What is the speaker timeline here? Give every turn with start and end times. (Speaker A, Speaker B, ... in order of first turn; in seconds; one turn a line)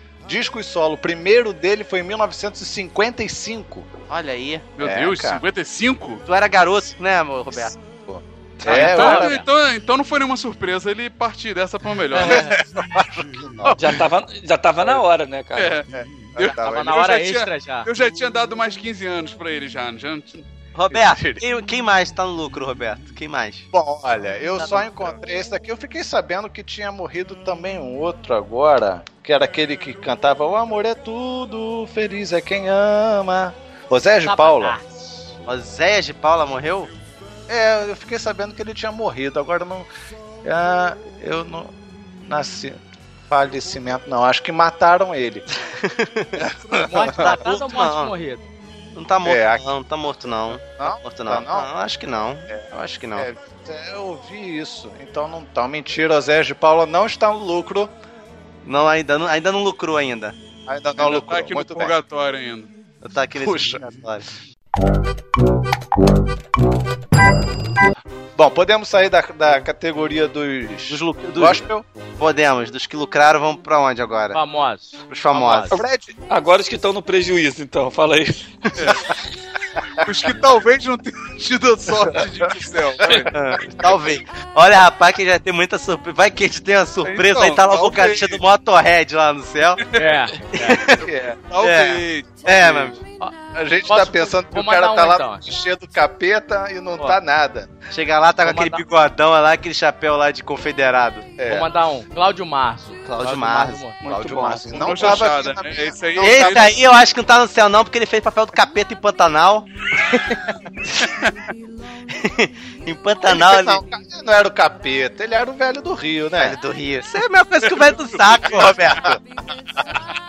Speaker A: 0.3-3.9
Speaker B: 4.1-4.7
Speaker C: 4.8-6.2
Speaker A: 4.8-5.4
Speaker B: 6.3-7.8
Speaker A: 8.1-9.3
Speaker C: 8.7-12.5
Speaker D: 8.7-9.5
Speaker D: 12.1-12.6
Speaker A: 12.2-13.9
Speaker E: 13.7-15.8
Speaker C: 15.6-20.5
Speaker A: 15.9-16.9
Speaker D: 16.5-17.9
Speaker B: 20.7-23.7
Speaker A: 20.9-21.4
Speaker A: 23.7-34.8
Speaker D: 34.2-35.5
Speaker B: 35.5-36.9
Speaker A: 37.5-39.9
Speaker A: 40.4-45.5
Speaker B: 45.7-46.5
Speaker A: 46.4-47.3
Speaker D: 46.8-48.5
Speaker B: 47.1-48.1
Speaker B: 49.0-53.3
Speaker A: 49.2-49.6
Speaker A: 50.5-51.7
Speaker A: 52.5-57.9
Speaker B: 58.6-60.4
Speaker A: 60.7-61.9
Speaker C: 61.0-62.7
Speaker B: 63.0-64.2
Speaker A: 68.4-71.8
Speaker B: 70.9-74.4
Speaker D: 74.3-75.8
Speaker B: 75.1-75.8
Speaker A: 75.4-76.1
Speaker E: 76.3-78.7
Speaker C: 78.8-79.1
Speaker C: 80.0-83.3
Speaker A: 82.0-82.5
Speaker B: 83.3-89.8
Speaker C: 87.0-88.4
Speaker D: 90.0-90.8
Speaker B: 90.5-91.1
Speaker A: 90.9-91.5
Speaker C: 91.5-93.0
Speaker B: 91.6-93.0
Speaker D: 93.2-95.4
Speaker A: 93.5-97.7
Speaker B: 97.9-101.3
Speaker D: 98.4-98.8
Speaker A: 101.4-101.7
Speaker D: 101.5-104.0
Speaker B: 103.0-105.3
Speaker E: 104.0-105.2
Speaker A: 104.1-106.7
Speaker C: 104.8-106.8
Speaker B: 106.2-111.1
Speaker C: 111.0-111.3
Speaker B: 112.1-113.8
Speaker A: 113.3-116.6
Speaker B: 116.4-119.2
Speaker C: 118.3-118.6